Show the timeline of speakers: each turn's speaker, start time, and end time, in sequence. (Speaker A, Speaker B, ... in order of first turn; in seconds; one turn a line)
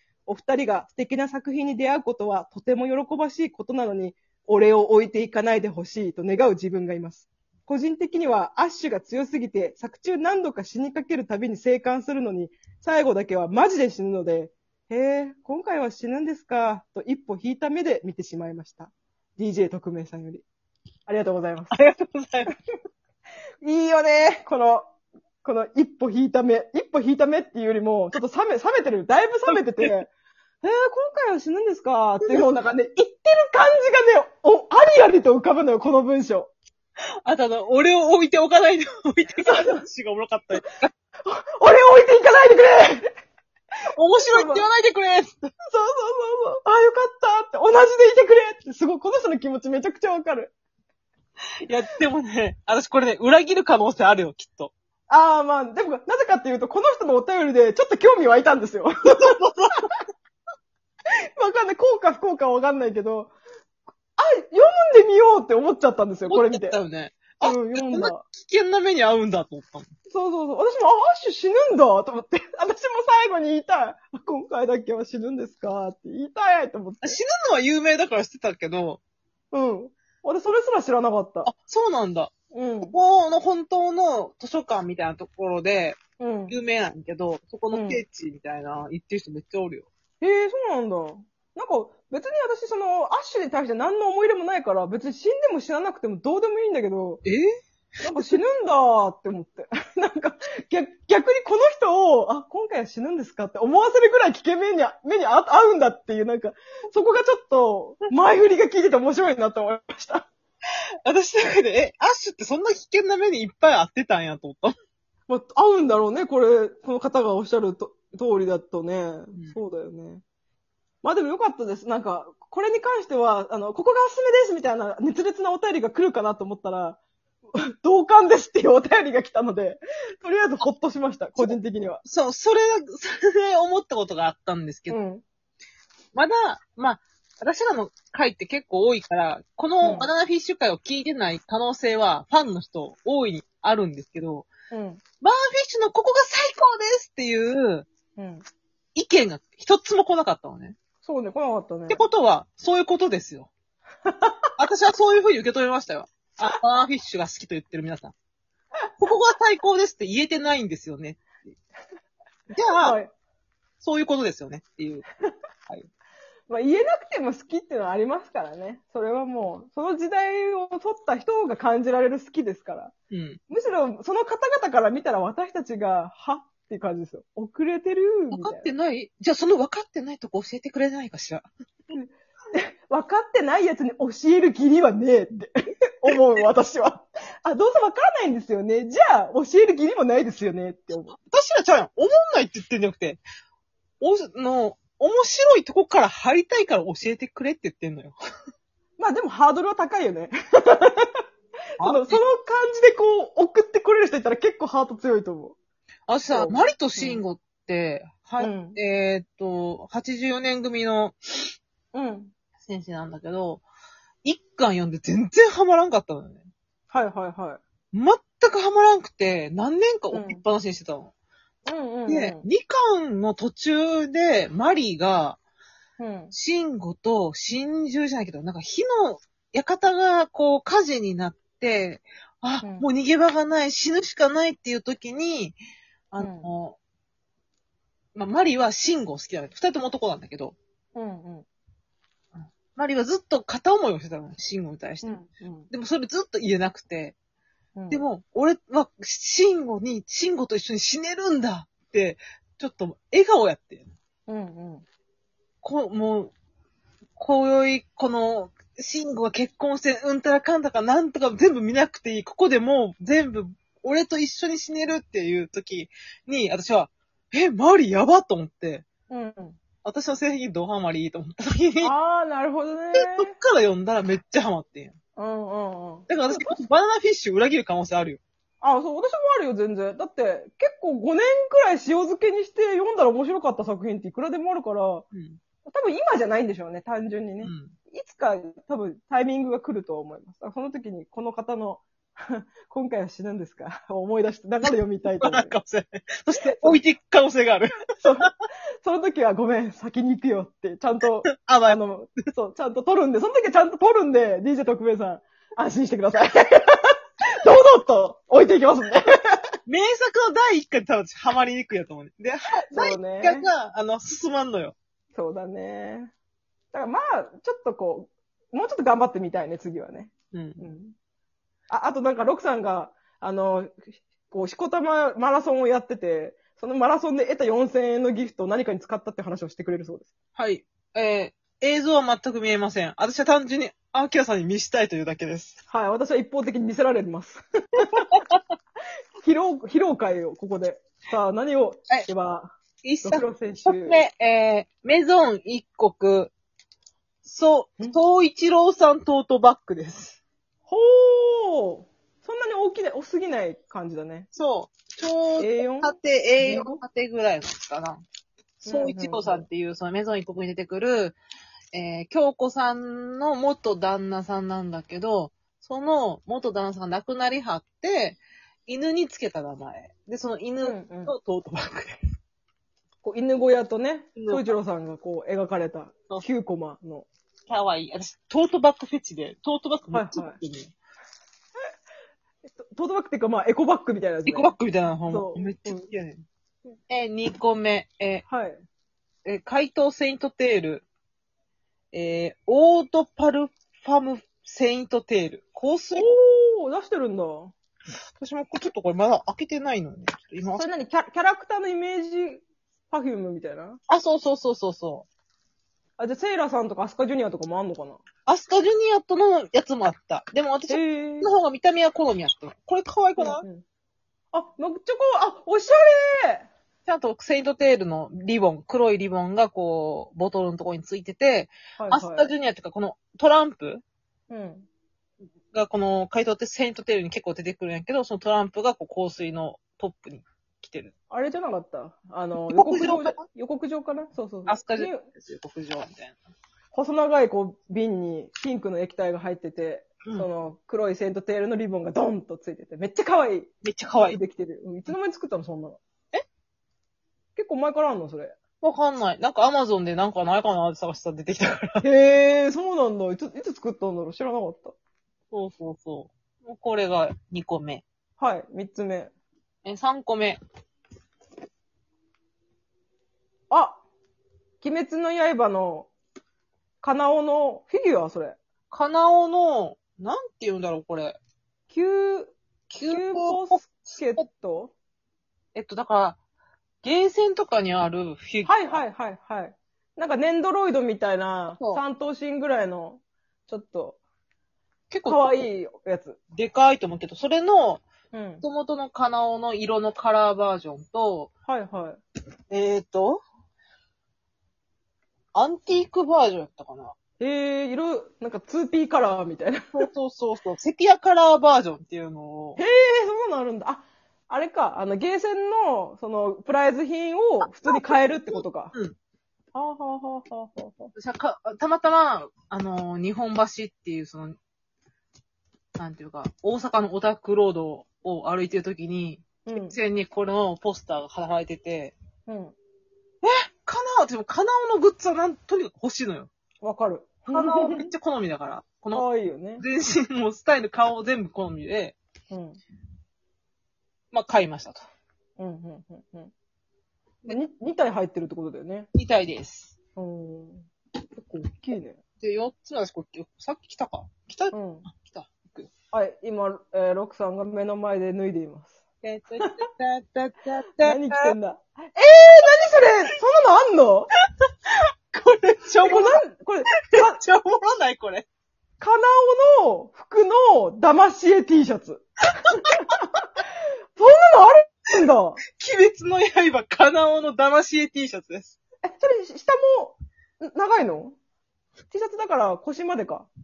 Speaker A: 0.3-20.4
Speaker A: 21.1-21.7
Speaker B: 21.7-22.5
Speaker A: 23.6-24.9
Speaker A: 25.4-30.1
Speaker B: 29.5-29.9
Speaker A: 30.6-36.5
Speaker B: 37.2-40.9
Speaker A: 39.4-39.8
Speaker A: 41.2-43.1
Speaker B: 44.0-45.5
Speaker A: 44.2-44.6
Speaker A: 45.7-50.5
Speaker B: 51.6-54.7
Speaker A: 55.1-59.4
Speaker B: 59.2-59.9
Speaker A: 61.4-63.3
Speaker A: 64.2-66.8
Speaker B: 66.3-69.9
Speaker A: 67.4-68.2
Speaker A: 70.1-77.2
Speaker B: 77.0-79.0
Speaker A: 79.5-81.5
Speaker B: 81.4-82.3
Speaker A: 82.5-82.9
Speaker B: 82.8-89.9
Speaker A: 86.2-86.5
Speaker A: 87.7-88.0
Speaker A: 90.2-97.2
Speaker B: 98.0-98.4
Speaker A: 98.0-110.3
Speaker B: 111.0-114.7
Speaker A: 115.3-120.2
Speaker A: 121.0-127.0
Speaker A: 127.6-132.0
Speaker B: 131.4-135.0
Speaker A: 134.9-135.2
Speaker B: 136.1-144.5
Speaker A: 139.8-140.1
Speaker A: 144.7-145.0
Speaker B: 145.2-147.9
Speaker A: 148.2-148.4
Speaker B: 148.9-150.8
Speaker A: 151.0-152.0
Speaker B: 151.9-153.5
Speaker A: 154.1-154.4
Speaker B: 154.6-158.1
Speaker B: 159.0-161.3
Speaker B: 162.5-163.0
Speaker A: 162.8-163.1
Speaker B: 163.8-165.1
Speaker A: 166.5-172.9
Speaker B: 173.1-173.4
Speaker A: 173.5-178.7
Speaker B: 178.3-181.5
Speaker A: 181.9-191.2
Speaker B: 191.2-193.2
Speaker B: 194.0-198.1
Speaker A: 199.0-201.2
Speaker A: 201.8-205.6
Speaker B: 201.8-202.2
Speaker B: 206.1-211.5
Speaker A: 206.3-207.2
Speaker A: 208.4-208.8
Speaker A: 211.9-212.3
Speaker B: 212.6-213.6
Speaker B: 214.2-216.5
Speaker A: 216.9-217.6
Speaker B: 217.9-221.1
Speaker A: 220.1-220.4
Speaker A: 221.6-222.4
Speaker B: 222.1-225.4
Speaker A: 226.0-226.3
Speaker B: 226.3-235.6
Speaker B: 236.1-236.8
Speaker A: 236.2-236.5
Speaker B: 238.1-240.6
Speaker A: 240.9-241.4
Speaker B: 242.7-245.1
Speaker A: 245.0-245.7
Speaker B: 245.7-247.2
Speaker A: 247.8-248.0
Speaker B: 247.9-253.9
Speaker A: 254.3-254.8
Speaker B: 255.6-256.3
Speaker B: 257.2-268.8
Speaker A: 269.1-269.6
Speaker B: 269.8-271.9
Speaker A: 271.8-273.3
Speaker B: 272.9-274.9
Speaker A: 275.2-276.6
Speaker B: 276.1-278.2
Speaker A: 278.6-285.1
Speaker B: 285.1-285.4
Speaker A: 285.6-295.5
Speaker B: 287.4-287.7
Speaker B: 294.6-298.3
Speaker A: 296.3-296.8
Speaker A: 298.0-298.3
Speaker A: 298.8-309.4
Speaker B: 301.3-301.8
Speaker B: 309.6-314.8
Speaker A: 312.7-313.5
Speaker A: 315.1-316.1
Speaker A: 316.7-320.9
Speaker B: 320.3-320.6
Speaker A: 321.7-330.1
Speaker B: 330.4-335.6
Speaker A: 335.7-338.1
Speaker A: 339.2-344.0
Speaker B: 342.8-346.3
Speaker B: 347.2-350.2
Speaker A: 350.7-354.3
Speaker B: 354.3-358.0
Speaker A: 355.4-356.8
Speaker A: 358.6-359.4
Speaker B: 358.6-361.2
Speaker B: 361.7-372.0
Speaker A: 370.6-371.1
Speaker A: 373.0-377.1
Speaker B: 374.1-374.5
Speaker B: 377.5-380.7
Speaker A: 379.9-380.4
Speaker A: 382.4-384.5
Speaker B: 384.2-386.2
Speaker A: 385.1-385.9
Speaker B: 386.9-388.2
Speaker A: 388.3-388.6
Speaker B: 389.2-390.8
Speaker B: 391.9-396.1
Speaker A: 395.9-397.5
Speaker B: 398.2-400.6
Speaker A: 400.6-403.8
Speaker B: 403.9-405.1
Speaker A: 406.0-408.0
Speaker B: 408.2-413.4
Speaker A: 410.7-411.3
Speaker A: 413.2-413.6
Speaker A: 414.3-416.5
Speaker B: 416.8-423.8
Speaker A: 421.8-422.3
Speaker A: 424.3-424.7
Speaker B: 425.5-430.9
Speaker A: 431.1-435.0
Speaker B: 432.5-433.2
Speaker B: 434.5-436.2
Speaker A: 436.7-445.8
Speaker B: 443.6-444.2
Speaker A: 447.4-448.4
Speaker B: 448.6-451.8
Speaker A: 451.8-454.8
Speaker B: 455.3-457.8
Speaker A: 458.2-459.1
Speaker B: 459.6-460.4
Speaker A: 463.5-463.8
Speaker A: 464.6-465.9
Speaker A: 466.8-468.4
Speaker B: 468.7-471.2
Speaker A: 471.7-472.4
Speaker B: 472.7-474.2
Speaker A: 472.9-474.7
Speaker B: 475.5-476.2
Speaker B: 476.8-478.8
Speaker A: 478.4-484.0
Speaker B: 481.5-481.8
Speaker B: 484.9-485.4
Speaker A: 485.1-486.2
Speaker B: 486.3-487.8
Speaker A: 488.1-488.4
Speaker B: 488.4-491.3
Speaker A: 491.5-492.0
Speaker B: 492.5-493.2
Speaker B: 495.3-496.9
Speaker A: 497.2-499.9
Speaker B: 499.7-502.6
Speaker A: 502.6-508.7
Speaker B: 507.4-508.9
Speaker A: 509.5-510.9
Speaker B: 510.9-514.4
Speaker B: 515.8-521.9
Speaker A: 519.5-519.8
Speaker A: 522.3-522.5
Speaker B: 523.2-526.3
Speaker A: 526.6-527.9
Speaker B: 527.3-529.0
Speaker A: 528.9-529.6
Speaker B: 529.6-532.0
Speaker A: 532.3-532.6
Speaker B: 534.1-534.8
Speaker A: 535.4-536.3
Speaker A: 537.3-538.9
Speaker B: 538.9-539.7
Speaker A: 540.0-540.7
Speaker A: 541.2-542.0
Speaker B: 542.2-545.7
Speaker A: 544.5-544.9
Speaker A: 545.9-548.8
Speaker B: 549.0-551.3
Speaker A: 550.8-554.1
Speaker B: 555.1-556.2
Speaker A: 555.8-557.1
Speaker B: 556.9-558.2
Speaker A: 558.8-562.1
Speaker A: 562.6-563.0
Speaker A: 564.0-565.4
Speaker B: 565.5-568.5
Speaker A: 568.8-571.1
Speaker A: 571.9-573.3